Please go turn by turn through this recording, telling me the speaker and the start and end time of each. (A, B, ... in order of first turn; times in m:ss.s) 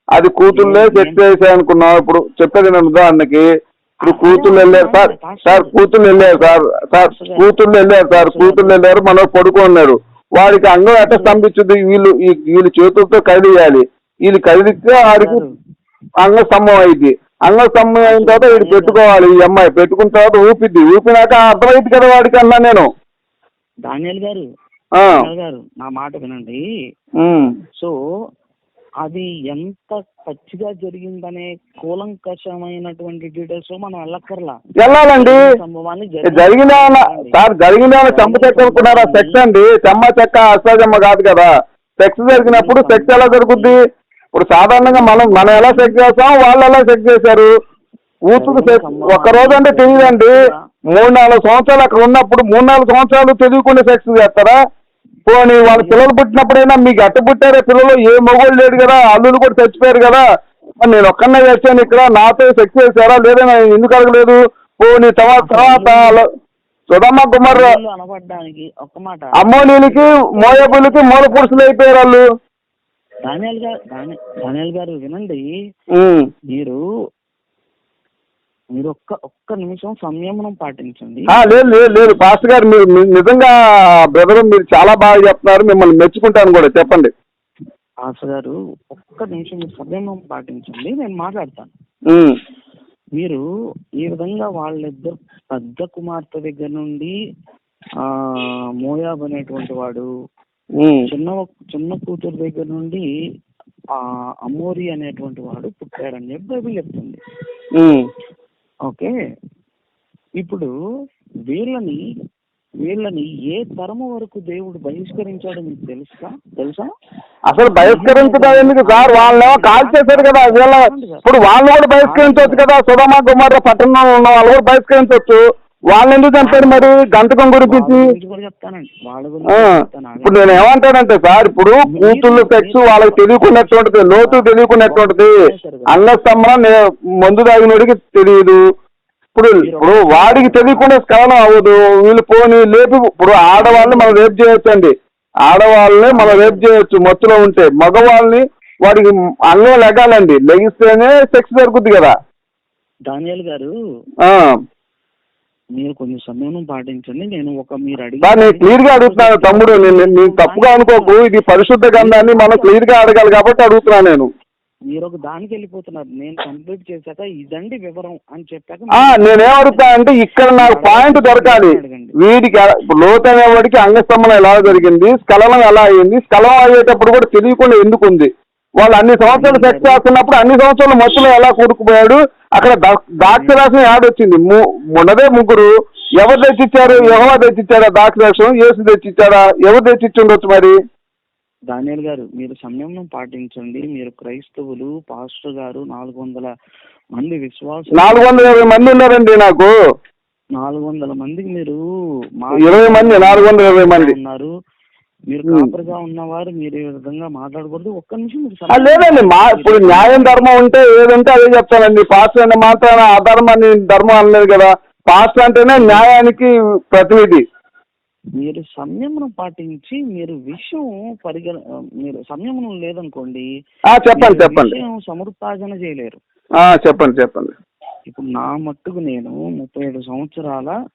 0:00.1-0:03.5 A
0:00.5-0:01.2 B
0:04.0-0:08.9 B
0:04.0-0:15.4 A
0:11.0-0:11.4 B
0:15.1-0:15.5 B
0:16.2-0:22.9 A
0:18.0-0:19.0 B
0:23.9-0:24.4 B
0:25.0-0:25.2 A
0:25.0-0:26.6 B
0:27.2-0:27.5 A
0:29.0-0:37.4 B
0:34.8-0:35.5 A
0:36.3-0:43.8 A
0:38.0-0:39.4 B
0:42.3-0:43.8 B
0:44.3-0:47.5 A
0:44.7-0:46.0 B
0:48.3-0:50.4 A
0:48.4-0:50.6 B
0:50.9-0:54.6 A
0:55.3-1:00.2 A
0:55.6-0:56.1 B
1:00.8-1:06.3 A
1:05.4-1:06.2 B
1:06.9-1:07.7 A
1:07.5-1:11.6 B
1:09.4-1:12.2 A
1:13.2-1:15.4 B
1:15.9-1:16.3 A
1:16.5-1:16.8 B
1:18.8-1:21.3 B
1:21.4-1:23.5 A
1:24.1-1:27.1 A
1:28.0-1:31.7 B
1:34.0-1:37.1 B
1:38.0-1:40.1 B
1:40.8-1:41.1 A
1:41.1-1:43.0 B
1:44.0-1:47.2 B
1:47.8-1:48.1 A
1:48.9-1:49.1 B
1:50.4-1:50.7 B
1:51.5-1:52.0 B
1:52.8-1:56.9 B
1:57.5-2:08.0 A
1:57.8-2:01.2 B
2:02.0-2:02.7 B
2:06.4-2:06.9 B
2:07.6-2:10.6 B
2:09.5-2:15.4 A
2:11.9-2:16.0 B
2:15.9-2:18.6 A
2:19.4-2:24.9 A
2:19.6-2:20.9 B
2:23.6-2:24.3 B
2:25.5-2:32.2 A
2:26.1-2:26.6 B
2:33.1-2:33.7 B
2:34.2-2:34.6 A
2:35.8-2:41.2 B
2:38.2-2:44.3 A
2:41.9-2:43.3 B
2:44.9-2:50.0 B
2:49.0-3:10.8 A
2:50.6-2:52.1 B
2:59.3-3:00.0 B
3:03.3-3:03.6 B
3:06.8-3:07.4 B
3:11.7-3:16.5 B
3:17.2-3:19.0 B
3:17.9-3:19.8 A
3:20.6-3:21.8 B
3:22.4-3:24.5 B
3:22.6-3:24.1 A
3:25.3-3:30.5 B
3:25.5-3:25.7 A
3:28.7-3:37.4 A
3:35.7-3:36.2 B
3:38.4-3:43.5 B
3:43.9-3:44.8 A
3:44.1-3:46.2 B
3:46.6-3:47.6 A
3:48.1-3:50.7 B